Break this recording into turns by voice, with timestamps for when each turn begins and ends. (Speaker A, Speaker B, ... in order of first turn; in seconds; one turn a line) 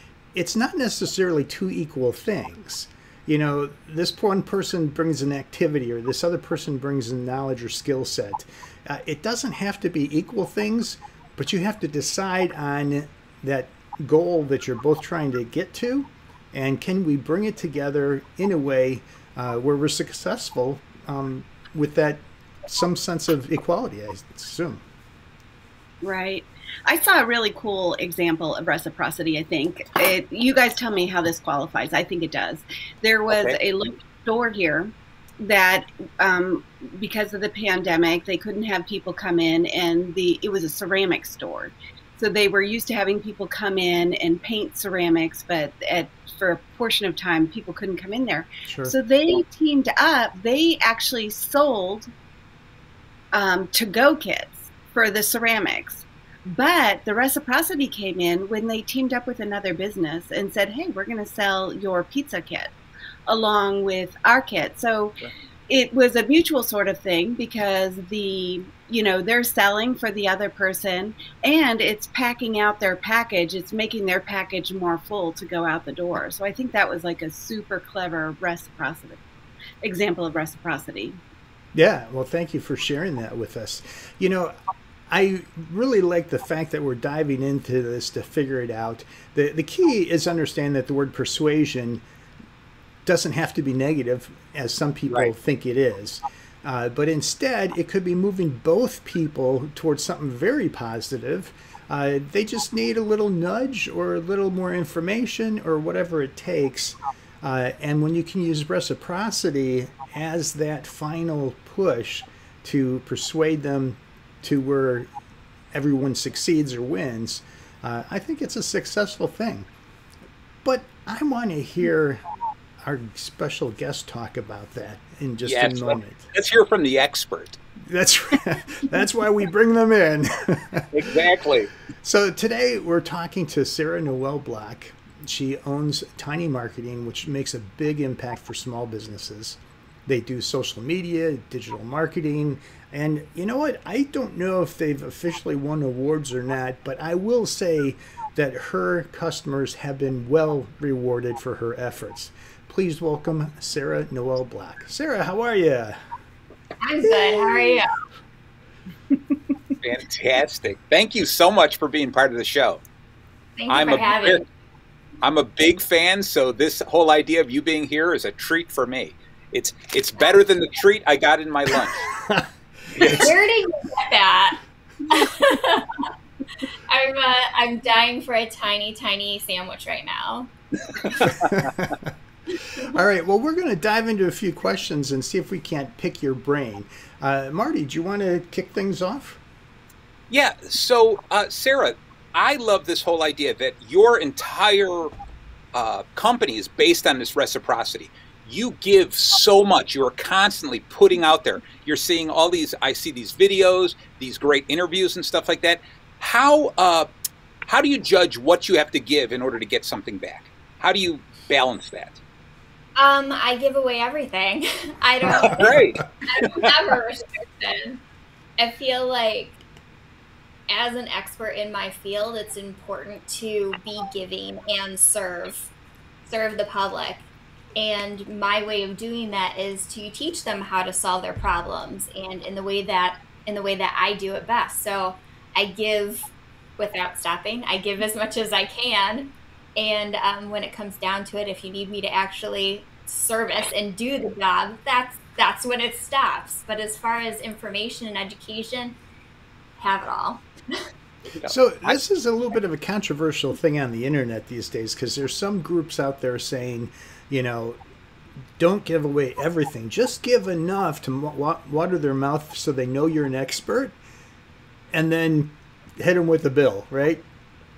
Speaker A: 0.3-24.8
Speaker B: 26.0-52.1
Speaker C: 33.3-33.6
Speaker A: 48.6-48.9
Speaker B: 53.3-62.7
Speaker B: 63.3-65.2
Speaker B: 65.7-79.2
Speaker B: 79.8-81.2
Speaker A: 81.7-84.5
Speaker A: 85.1-92.0
Speaker A: 93.0-115.1
Speaker A: 115.7-119.7
Speaker A: 120.6-122.2
Speaker A: 122.8-126.3
Speaker C: 125.4-127.6
Speaker A: 127.8-131.1
Speaker C: 130.9-131.7
Speaker A: 132.0-156.0
Speaker D: 156.8-157.9
Speaker A: 157.0-157.8
Speaker C: 159.8-162.8
Speaker D: 163.6-164.4
Speaker C: 163.7-164.4
Speaker C: 165.2-172.1
Speaker A: 172.1-172.5
Speaker C: 172.9-173.3
Speaker D: 173.1-174.6
Speaker D: 175.1-176.1
Speaker D: 176.6-180.5
Speaker A: 181.3-182.1
Speaker A: 182.8-189.4
Speaker C: 190.3-195.1
Speaker C: 195.7-207.1
Speaker C: 207.7-212.2
Speaker D: 212.9-218.0
Speaker A: 215.3-215.8
Speaker C: 215.4-216.7
Speaker D: 218.6-219.6
Speaker D: 220.7-225.7
Speaker D: 226.2-249.0
Speaker D: 249.8-250.8
Speaker C: 251.3-252.0
Speaker A: 251.4-257.8
Speaker A: 258.6-263.9
Speaker A: 264.9-267.2